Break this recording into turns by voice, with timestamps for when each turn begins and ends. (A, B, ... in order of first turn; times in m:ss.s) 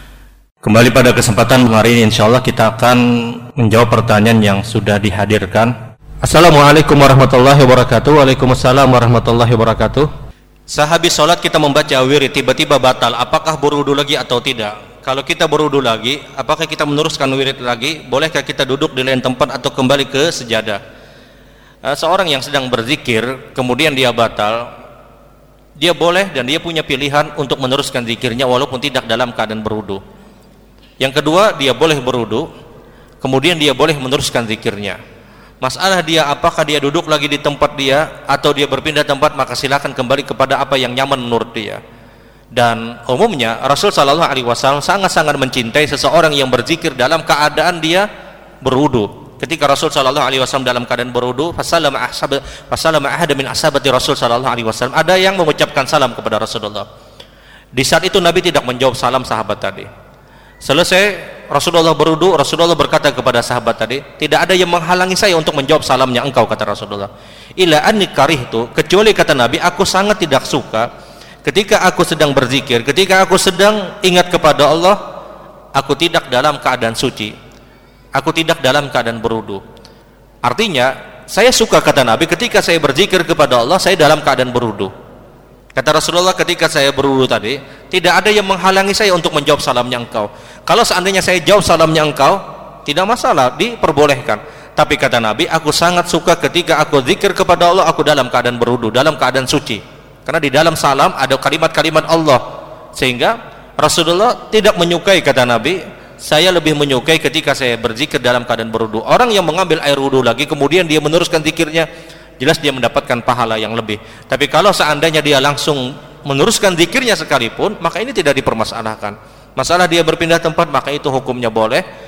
0:00.6-0:10.1 A
0:10.7-0:20.8 A
0:21.9-0:24.7 A
0:25.8-0:30.0 A
0:31.0-0:32.5 A
0:33.2-0:35.0 A
0:35.6-0:41.8 A
0:42.5-0:48.1 A
0:48.6-0:56.9 A
0:57.7-0:59.9 A
1:00.6-1:10.9 A
1:11.4-1:15.0 A
1:15.8-1:17.3 A
1:18.2-1:19.6 A
1:20.4-1:24.9 A
1:25.8-1:42.4 A
1:43.0-1:51.9 A
1:52.4-2:01.8 A